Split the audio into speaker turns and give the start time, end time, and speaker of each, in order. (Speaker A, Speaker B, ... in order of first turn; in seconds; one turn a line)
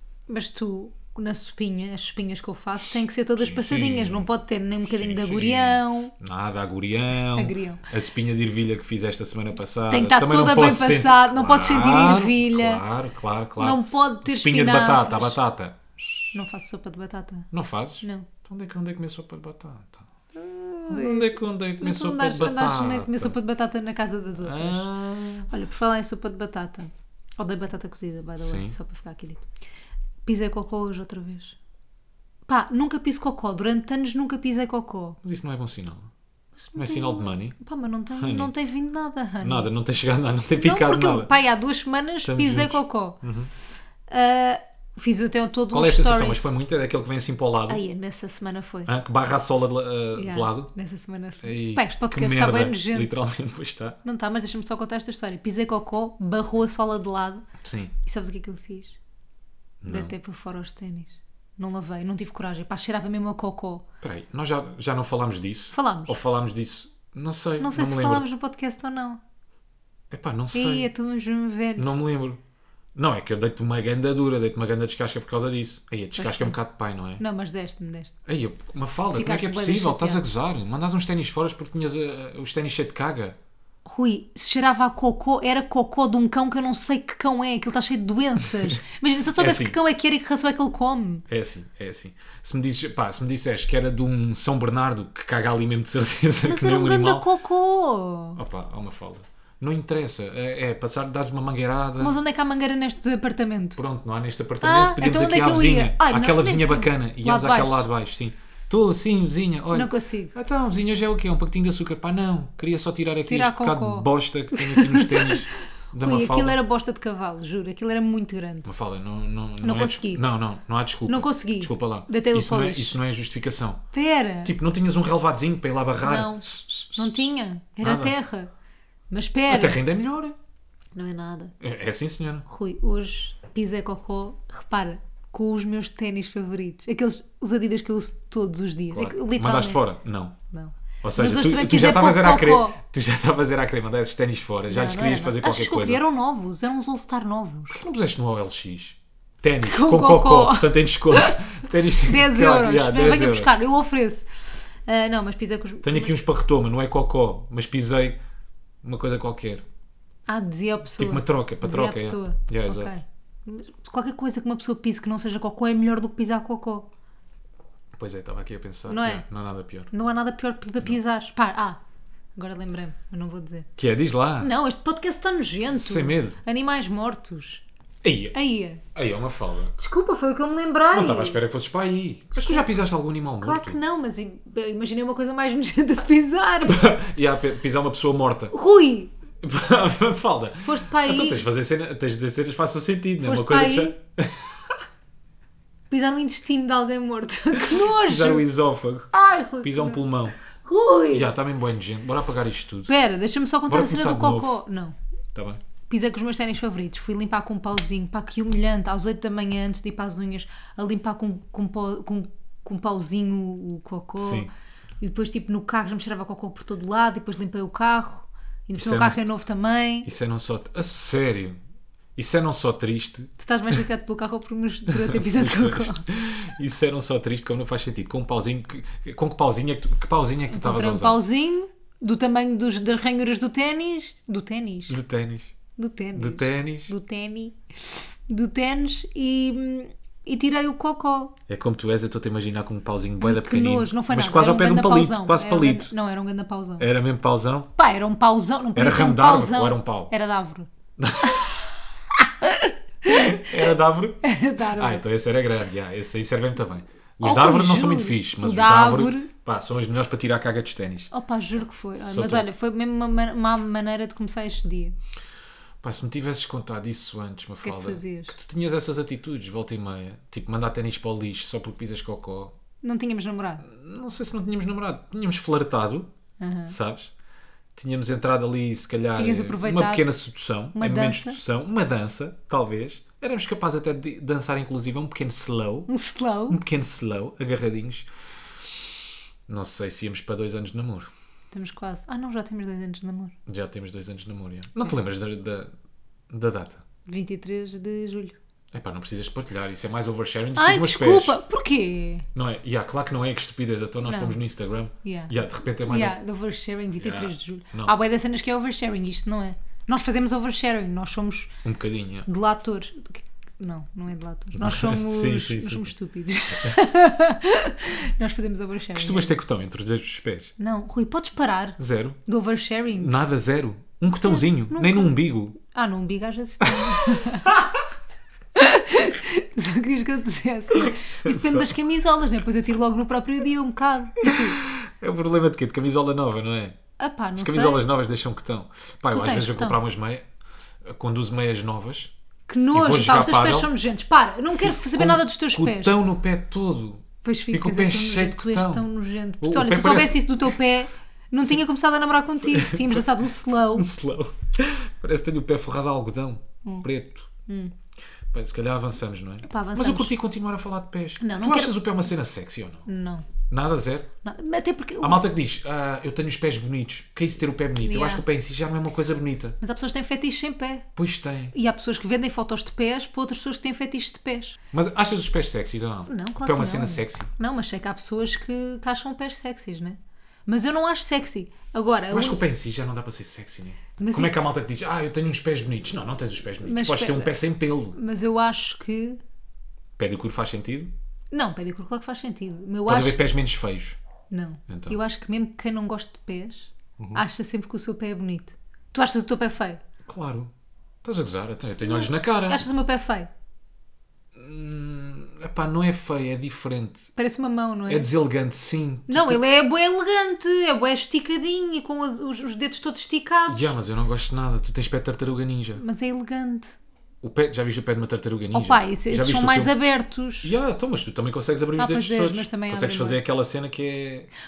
Speaker A: 0.3-6.1
Speaker B: 3.4-4.3
Speaker B: 4.8-16.3
Speaker A: 7.3-7.8
Speaker A: 9.9-12.8
Speaker A: 13.6-15.4
Speaker A: 16.3-17.5
Speaker B: 17.5-20.0
Speaker A: 18.0-18.3
Speaker A: 20.3-24.9
Speaker B: 20.9-23.4
Speaker B: 24.4-25.5
Speaker A: 25.5-29.5
Speaker B: 28.4-28.8
Speaker A: 30.2-31.6
Speaker A: 32.5-35.2
Speaker B: 35.2-36.1
Speaker A: 36.7-39.7
Speaker B: 36.8-37.6
Speaker B: 38.2-38.5
Speaker B: 39.4-41.3
Speaker A: 40.6-43.2
Speaker B: 42.2-43.5
Speaker A: 44.1-46.5
Speaker B: 45.7-47.8
Speaker A: 47.7-48.9
Speaker B: 48.9-50.7
Speaker A: 50.2-53.2
Speaker B: 51.4-54.0
Speaker A: 54.0-57.5
Speaker B: 57.6-57.9
Speaker A: 58.0-59.0
Speaker B: 59.8-60.1
Speaker A: 59.9-63.8
Speaker B: 64.0-68.3
Speaker A: 65.7-66.2
Speaker A: 67.6-69.2
Speaker B: 70.1-70.9
Speaker A: 70.5-72.0
Speaker B: 71.8-72.4
Speaker B: 73.0-77.2
Speaker A: 76.2-76.6
Speaker A: 77.2-78.1
Speaker B: 78.3-83.4
Speaker A: 79.1-80.2
Speaker A: 83.8-91.2
Speaker B: 89.4-89.8
Speaker B: 91.3-97.2
Speaker A: 96.4-98.4
Speaker B: 98.4-102.2
Speaker A: 102.0-103.8
Speaker B: 103.8-116.6
Speaker A: 104.6-107.9
Speaker A: 109.7-110.3
Speaker A: 113.3-115.4
Speaker A: 116.0-118.7
Speaker B: 118.7-123.8
Speaker A: 119.6-120.2
Speaker A: 121.1-123.0
Speaker A: 123.9-124.5
Speaker B: 124.5-127.3
Speaker A: 126.0-128.5
Speaker B: 127.8-128.2
Speaker A: 129.1-129.8
Speaker B: 129.5-130.4
Speaker A: 130.9-131.5
Speaker B: 131.6-132.5
Speaker A: 132.5-139.8
Speaker B: 138.9-140.4
Speaker A: 140.5-142.8
Speaker B: 141.0-146.0
Speaker A: 144.7-147.8
Speaker B: 147.7-153.6
Speaker A: 149.6-156.2
Speaker B: 155.8-158.2
Speaker B: 158.8-159.6
Speaker A: 160.3-166.9
Speaker B: 161.0-163.0
Speaker B: 167.9-169.9
Speaker A: 168.9-169.3
Speaker A: 169.9-171.8
Speaker A: 172.4-173.7
Speaker B: 173.8-174.5
Speaker A: 174.4-177.6
Speaker B: 175.7-176.4
Speaker B: 178.0-178.4
Speaker A: 178.3-178.8
Speaker B: 178.9-179.7
Speaker A: 179.8-181.4
Speaker B: 180.9-183.8
Speaker A: 182.3-182.7
Speaker A: 183.4-187.0
Speaker B: 186.7-188.5
Speaker A: 188.5-189.1
Speaker B: 189.4-194.6
Speaker A: 190.6-191.4
Speaker A: 193.2-193.9
Speaker A: 195.9-198.5
Speaker B: 197.6-199.1
Speaker A: 199.1-201.3
Speaker B: 199.6-200.4
Speaker B: 201.1-202.9
Speaker A: 202.9-204.9
Speaker B: 203.7-204.6
Speaker B: 205.3-205.6
Speaker A: 205.9-214.5
Speaker B: 214.2-214.5
Speaker A: 215.0-220.1
Speaker B: 218.8-219.2
Speaker B: 220.0-221.6
Speaker B: 222.2-223.8
Speaker A: 223.4-226.1
Speaker B: 224.9-231.2
Speaker A: 230.5-235.0
Speaker B: 234.9-235.5
Speaker A: 235.8-241.4
Speaker B: 236.2-236.9
Speaker B: 241.5-245.9
Speaker A: 243.2-246.9
Speaker B: 246.8-247.7
Speaker A: 247.8-250.7
Speaker B: 248.8-250.1
Speaker B: 251.0-251.5
Speaker A: 251.3-251.6
Speaker A: 252.1-253.5
Speaker B: 253.1-261.1
Speaker A: 254.2-255.0
Speaker A: 257.2-259.3
Speaker A: 261.1-265.0
Speaker B: 262.0-262.5
Speaker B: 265.8-272.5
Speaker A: 267.6-268.3
Speaker A: 272.8-273.6
Speaker B: 273.6-276.1
Speaker A: 276.4-276.8
Speaker B: 276.7-277.1
Speaker B: 277.8-285.9
Speaker A: 279.2-280.1
Speaker A: 280.8-281.4
Speaker A: 285.9-286.6
Speaker B: 286.5-288.1
Speaker B: 289.5-291.1
Speaker A: 291.5-293.4
Speaker B: 293.5-295.7
Speaker B: 296.3-296.8
Speaker A: 297.1-298.4
Speaker B: 298.7-301.4
Speaker A: 300.6-302.3
Speaker B: 302.4-306.2
Speaker A: 304.1-304.4
Speaker A: 305.0-305.3
Speaker A: 305.9-311.5
Speaker B: 307.0-307.9
Speaker B: 311.6-312.3
Speaker A: 312.3-319.4
Speaker B: 314.6-315.9
Speaker B: 318.9-320.5
Speaker A: 320.6-323.1
Speaker B: 321.8-322.2
Speaker B: 322.9-325.6
Speaker A: 324.1-327.7
Speaker B: 326.6-327.7
Speaker A: 328.6-334.6
Speaker B: 330.7-331.7
Speaker B: 334.2-336.8
Speaker A: 337.0-337.8
Speaker B: 337.4-340.2
Speaker A: 339.1-339.8
Speaker B: 340.9-342.1
Speaker A: 342.5-345.9
Speaker B: 342.7-343.7
Speaker B: 344.5-348.9
Speaker A: 347.2-353.9
Speaker B: 349.4-350.6
Speaker B: 352.4-353.1
Speaker B: 353.7-357.3
Speaker A: 357.5-357.7
Speaker B: 358.3-362.9
Speaker A: 359.4-360.1
Speaker A: 361.2-361.8
Speaker A: 362.9-363.3
Speaker B: 363.5-364.1
Speaker A: 364.2-365.2
Speaker B: 365.0-369.6
Speaker A: 367.8-368.2
Speaker A: 369.6-370.9
Speaker B: 371.0-371.5
Speaker A: 371.5-374.6
Speaker B: 374.7-377.3
Speaker A: 376.1-382.4
Speaker B: 382.1-388.0
Speaker A: 384.0-384.3
Speaker A: 386.6-387.4
Speaker A: 387.9-389.2
Speaker B: 390.0-390.9
Speaker A: 391.3-393.2
Speaker B: 392.9-394.0
Speaker A: 394.3-399.8
Speaker B: 394.7-395.0
Speaker B: 397.0-397.2
Speaker B: 400.1-400.5
Speaker B: 401.0-402.7
Speaker A: 401.8-403.3
Speaker B: 404.4-407.1
Speaker A: 407.2-408.1
Speaker B: 407.9-409.4
Speaker A: 409.1-413.7
Speaker B: 413.5-415.8
Speaker A: 415.8-416.8
Speaker B: 417.2-419.7
Speaker A: 418.5-420.5
Speaker B: 420.4-424.3
Speaker A: 421.8-423.2